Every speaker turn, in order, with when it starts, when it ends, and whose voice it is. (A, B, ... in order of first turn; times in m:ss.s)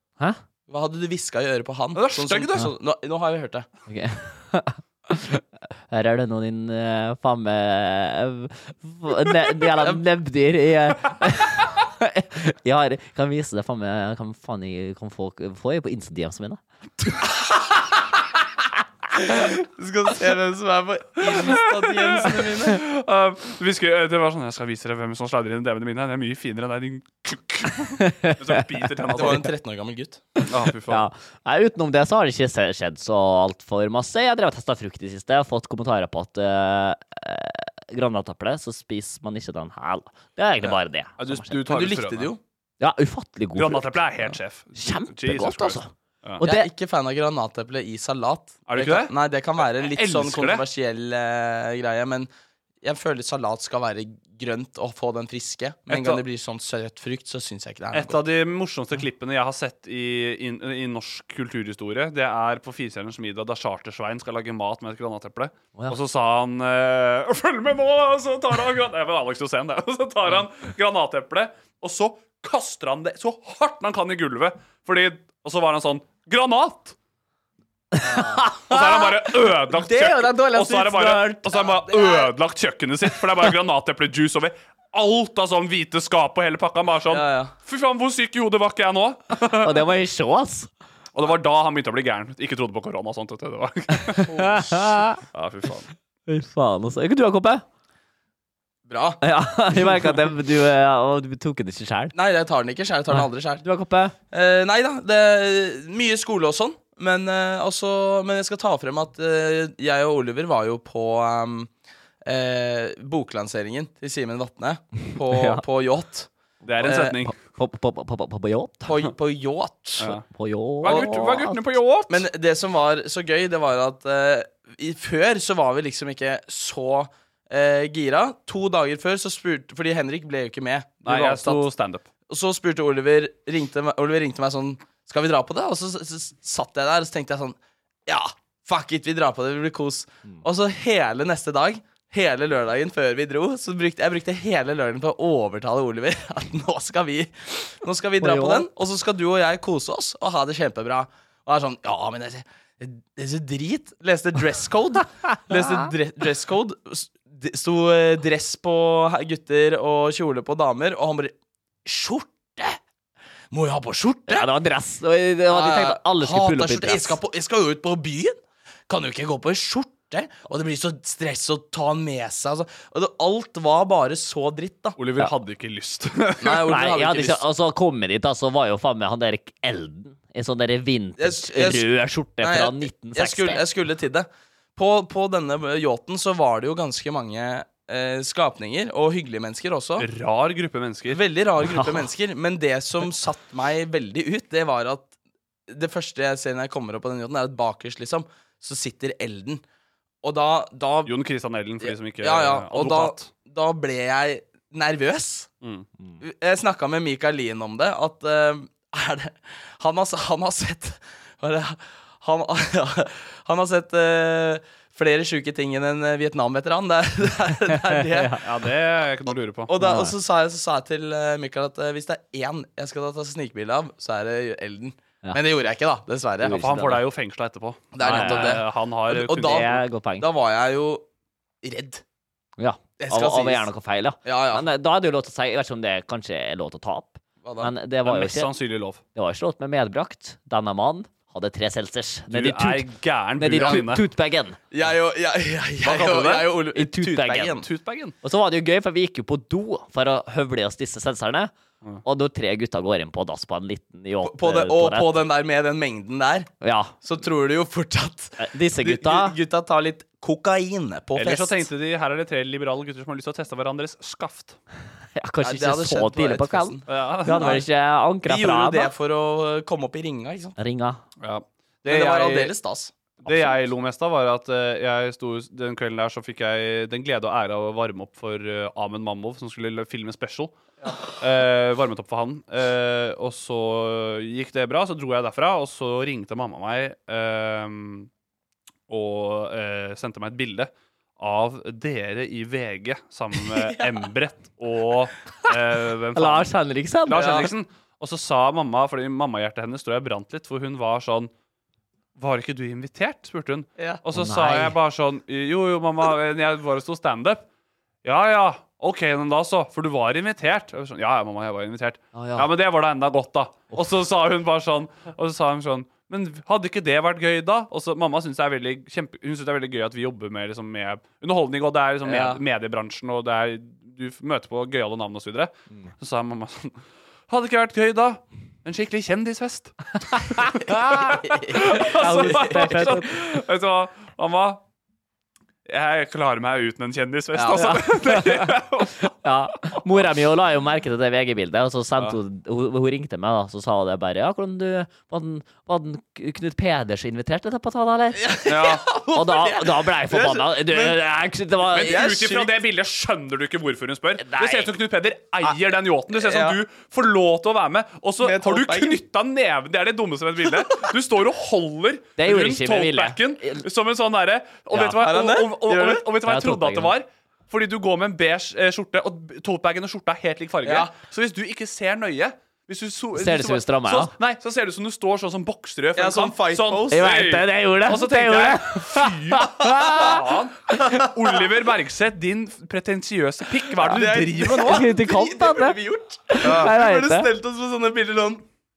0:00.7-0:03.7 A
0:01.9-0:02.6 B
0:03.9-0:16.6 C
0:19.2-0:22.8 A
0:21.3-0:29.5 B
0:28.0-0:28.6 C
0:29.1-0:30.2 A
0:30.4-0:41.5 C
0:30.5-0:31.0 B
0:41.2-0:42.3 B
0:41.6-0:42.4 A
0:42.8-0:44.0 C
0:43.6-0:46.4 B
0:44.8-0:46.7 C
0:46.4-0:52.3 A
0:48.7-0:49.1 B
0:49.6-0:50.6 B
0:52.8-0:58.2 A
0:55.9-0:56.2 B
0:57.9-1:16.9 B
1:17.9-1:19.3 C
1:18.0-1:18.4 A
1:18.7-1:29.8 B
1:19.8-1:20.3 A
1:19.9-1:21.5 C
1:21.5-1:22.3 A
1:27.1-1:27.5 A
1:29.6-1:30.7 C
1:31.1-1:34.3 B
1:34.1-1:35.2 C
1:34.3-1:35.0 A
1:35.3-1:35.9 B
1:36.3-1:37.6 C
1:38.9-1:39.2 A
1:39.2-1:42.1 C
1:42.1-1:43.6 A
1:43.1-1:44.1 C
1:44.3-1:51.7 A
1:52.2-1:56.3 A
1:55.3-1:55.6 C
1:56.6-1:57.3 B
1:56.8-1:57.2 A
1:57.3-1:58.9 C
1:58.8-2:00.1 A
2:00.0-2:01.6 C
2:00.8-2:02.2 B
2:00.8-2:01.1 A
2:02.1-2:11.6 A
2:11.0-2:12.0 B
2:12.3-2:41.3 A
2:28.2-2:28.7 C
2:35.5-2:35.8 C
2:41.8-2:42.8 A
2:43.5-2:44.5 A
2:44.3-2:47.2 C
2:45.5-2:48.4 A
2:48.9-2:55.0 A
2:55.0-2:56.7 B
2:56.4-2:57.4 A
2:56.7-3:03.6 C
3:01.2-3:01.9 A
3:02.4-3:10.0 A
3:10.0-3:11.2 B
3:11.1-3:15.1 A
3:11.7-3:12.0 C
3:15.7-3:19.6 A
3:20.2-3:21.1 A
3:21.0-3:23.3 B
3:21.8-3:25.5 A
3:26.2-3:38.4 A
3:37.9-3:38.4 C
3:38.4-3:39.7 B
3:39.7-3:46.6 A
3:39.8-3:40.1 C
3:46.4-3:47.0 C
3:46.6-3:49.8 B
3:47.9-3:51.0 A
3:48.0-3:48.6 C
3:49.4-3:50.2 C
3:51.6-3:52.0 A
3:52.6-3:58.5 C
3:53.0-3:53.7 A
3:54.2-3:54.6 A
3:57.4-3:57.7 A
3:58.0-3:59.0 B
3:59.1-4:04.6 C
4:02.3-4:04.0 B
4:04.7-4:07.6 A
4:05.8-4:06.6 B
4:06.7-4:07.6 C
4:07.6-4:08.1 B
4:08.2-4:11.5 C
4:12.0-4:15.2 C
4:14.2-4:16.5 A
4:16.6-4:16.9 C
4:17.0-4:21.7 A
4:18.4-4:19.4 C
4:21.1-4:24.6 B
4:25.2-4:28.9 C
4:25.4-4:27.6 A
4:26.9-4:27.6 B
4:28.2-4:30.6 A
4:30.6-4:31.0 C
4:31.2-4:32.5 B
4:31.9-4:33.6 A
4:33.2-4:40.5 B
4:41.2-4:48.1 B
4:48.9-4:56.5 B
4:53.5-4:53.9 A
4:56.1-4:57.2 C
4:57.1-4:57.5 A
4:57.1-5:01.3 B
5:02.2-5:07.4 B
5:04.1-5:04.8 C
5:08.0-5:30.5 B
5:12.1-5:12.5 C
5:22.0-5:22.4 A
5:30.4-5:31.2 C
5:31.1-5:32.9 A
5:31.5-5:34.6 B
5:31.7-5:33.2 C
5:35.6-5:39.1 B
5:37.3-5:37.7 A
5:37.5-5:38.5 C
5:39.2-5:48.3 C
5:48.2-5:51.0 A
5:48.4-5:48.8 B
5:49.1-5:52.0 C
5:51.7-6:24.9 B
5:51.8-5:52.6 A
5:54.2-5:54.7 C
5:56.1-5:56.6 A
5:58.2-5:59.0 A
6:02.2-6:03.6 C
6:04.7-6:05.0 C
6:04.8-6:06.0 A
6:06.2-6:06.9 C
6:10.6-6:10.9 A
6:13.1-6:14.1 C
6:16.0-6:17.0 A
6:16.9-6:20.1 C
6:23.8-6:28.4 A
6:24.5-6:25.8 C
6:26.3-6:27.3 C